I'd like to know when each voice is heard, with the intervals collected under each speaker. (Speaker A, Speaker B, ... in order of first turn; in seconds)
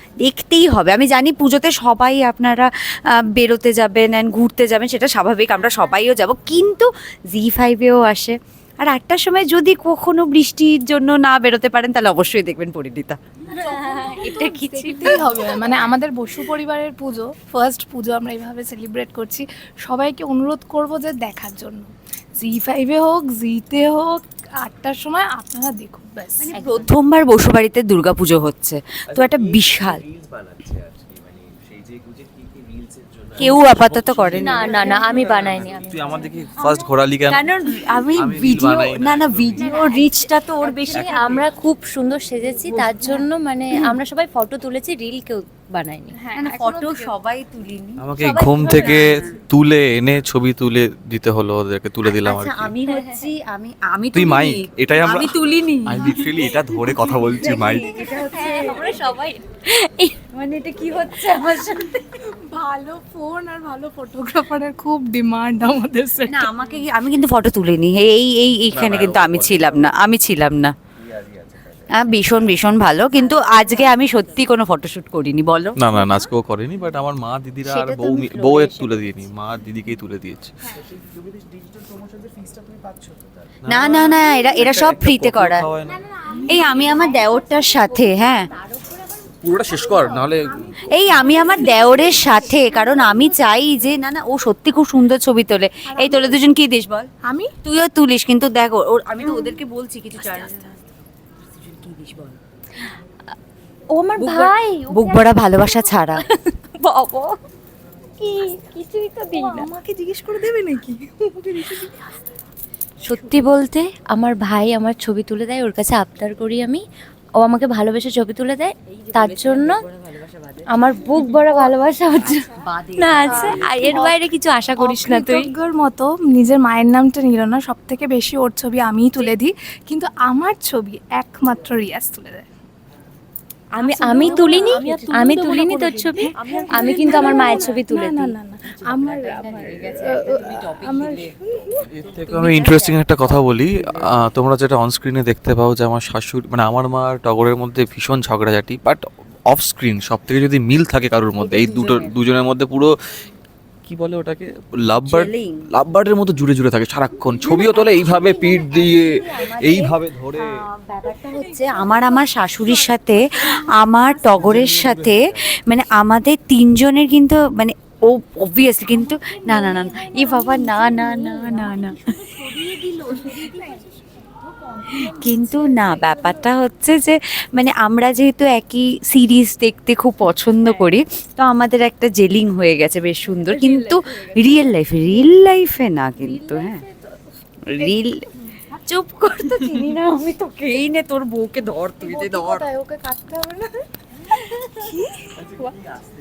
Speaker A: 0.2-13.2, 13.9-15.7, 26.4-30.0, 33.4-35.1, 36.7-41.2, 42.7-43.2, 46.3-49.4, 52.0-59.0, 60.3-62.0, 66.2-70.7, 71.9-76.3, 77.6-79.3, 83.7-85.7, 86.4-88.5, 90.9-97.1, 97.6-100.8, 101.4-102.4, 104.2-106.2, 118.9-120.7, 122.4-124.2, 134.1-135.1, 136.3-137.7, 138.7-141.3, 142.1-143.4, 151.4-152.2, 155.1-155.7, 157.4-160.0, 160.7-173.3, 174.9-186.8, 187.7-192.7
Speaker B: 13.6-26.5, 46.1-47.1, 62.1-66.5, 91.4-91.8, 95.9-96.5, 97.2-97.5, 99.2-99.6, 109.3-112.0, 121.2-121.7, 123.2-124.2, 124.8-132.4, 133.8-141.9, 161.3-162.1, 162.7-163.0, 173.1-173.8, 192.0-195.8
Speaker C: 13.6-14.0, 26.5-26.9, 34.4-36.2, 39.7-40.1, 40.6-46.2, 48.7-49.0, 57.9-60.1, 73.2-74.1, 100.2-100.6, 103.9-107.3, 108.2-109.7, 113.0-116.8, 117.4-119.8, 120.7-125.5, 133.8-138.3, 169.5-171.8, 172.5-173.4, 186.2-186.8
Speaker D: 33.4-37.4, 38.1-39.7, 40.9-41.4, 48.0-52.7, 54.1-57.9, 68.7-69.9, 75.8-80.5, 83.6-86.0, 89.4-90.8, 141.9-152.9, 153.8-160.4, 164.4-165.1